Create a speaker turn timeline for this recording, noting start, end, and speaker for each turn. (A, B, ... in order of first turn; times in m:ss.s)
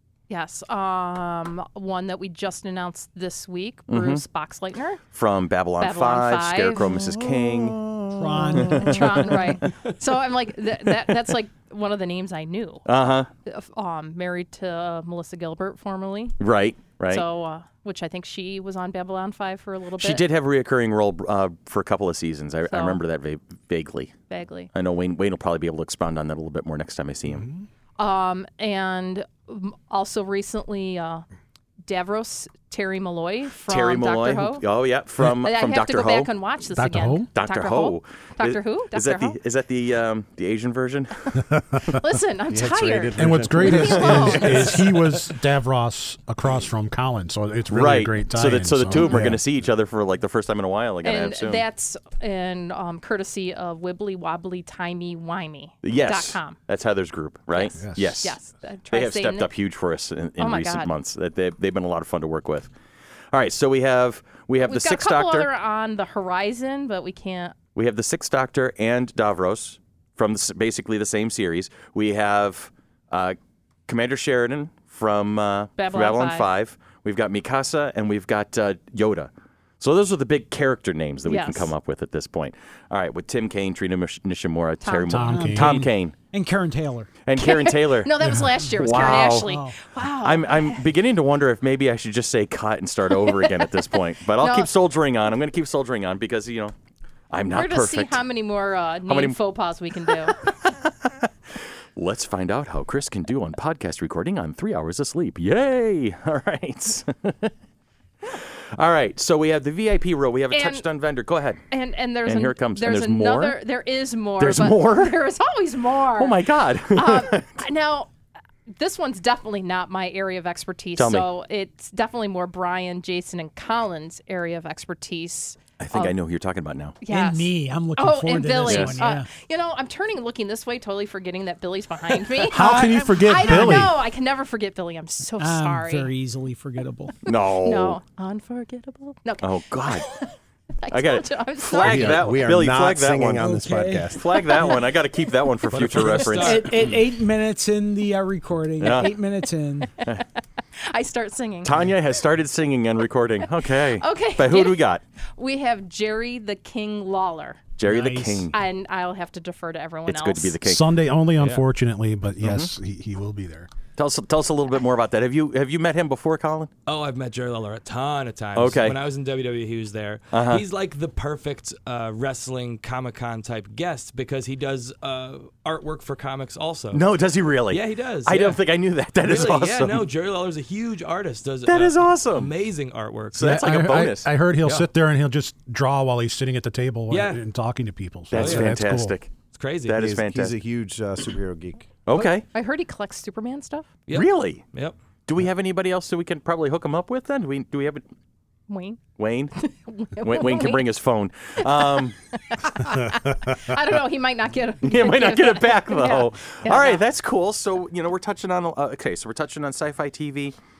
0:00.3-0:05.0 A
0:03.9-0:04.2 B
0:05.1-0:09.7 B
0:05.8-0:07.1 A
0:08.2-0:09.6 C
0:08.6-0:12.9 A
0:12.9-0:13.3 B
0:13.5-0:16.4 A
0:16.4-0:17.2 B
0:17.1-0:20.2 A
0:20.0-0:24.1 B
0:22.7-0:23.0 A
0:24.3-0:24.7 A
0:24.7-0:27.5 B
0:28.0-0:31.2 A
0:31.8-0:34.7 A
0:33.7-0:36.3 B
0:35.2-0:39.4 A
0:36.7-0:37.3 D
0:37.4-0:41.3 B
0:41.4-0:42.0 D
0:41.8-0:45.0 A
0:42.5-0:44.8 E
0:43.2-0:49.5 D
0:47.7-0:51.6 B
0:51.0-0:56.6 A
0:55.8-0:58.4 B
0:57.5-0:59.5 A
0:57.8-0:58.2 D
0:58.9-1:02.7 B
1:00.4-1:00.9 A
1:03.3-1:05.5 B
1:04.7-1:07.6 A
1:07.8-1:26.2 B
1:15.8-1:16.5 A
1:21.3-1:21.7 A
1:24.8-1:25.4 A
1:25.1-1:25.8 D
1:25.3-1:27.1 C
1:27.3-1:29.5 B
1:27.4-1:30.8 A
1:28.8-1:29.8 C
1:30.2-1:36.7 B
1:33.3-1:33.8 A
1:34.4-1:34.7 A
1:37.3-1:38.2 B
1:37.5-1:40.4 A
1:39.1-1:39.4 B
1:40.1-1:41.3 B
1:42.0-1:47.5 B
1:48.3-1:51.6 B
1:50.5-1:50.9 A
1:51.7-1:58.1 A
1:52.3-1:53.6 B
1:54.4-1:55.2 B
1:56.2-1:57.6 B
1:58.8-2:06.2 A
2:01.0-2:01.3 B
2:05.8-2:07.0 B
2:07.0-2:16.1 A
2:07.1-2:09.3 C
2:08.6-2:09.0 B
2:12.4-2:13.9 C
2:12.5-2:14.0 D
2:15.4-2:17.2 C
2:17.2-2:18.0 B
2:17.4-2:22.2 A
2:19.4-2:20.1 B
2:20.9-2:23.5 B
2:21.8-2:24.5 E
2:23.4-2:24.8 C
2:24.1-2:27.0 B
2:25.7-2:26.9 F
2:26.3-2:29.9 C
2:28.8-2:29.1 B
2:30.8-2:31.9 A
2:31.6-2:35.0 B
2:33.6-2:34.8 A
2:35.4-2:37.7 A
2:37.8-2:38.5 B
2:37.8-2:38.5 C
2:38.5-2:40.6 A
2:40.1-2:40.8 B
2:40.6-2:43.7 D
2:41.4-2:41.6 F
2:42.4-2:42.7 B
2:44.0-2:46.7 B
2:46.9-2:57.0 F
2:48.6-2:49.0 B
2:50.3-2:50.6 B
2:56.9-3:00.0 B
2:57.7-2:58.6 F
2:59.2-3:03.6 F
3:01.6-3:02.5 B
3:03.3-3:04.3 B
3:03.4-3:09.2 D
3:04.6-3:04.9 F
3:07.1-3:07.4 F
3:08.3-3:09.3 B
3:08.4-3:08.7 F
3:09.5-3:10.0 F
3:09.9-3:10.6 B
3:10.0-3:12.0 E
3:12.1-3:12.4 B
3:12.4-3:13.9 A
3:14.1-3:15.0 F
3:14.1-3:14.6 B
3:15.3-3:18.0 B
3:18.7-3:19.0 A
3:19.2-3:19.5 B
3:19.6-3:20.8 A
3:20.2-3:22.2 B
3:21.6-3:27.0 A
3:24.8-3:30.6 B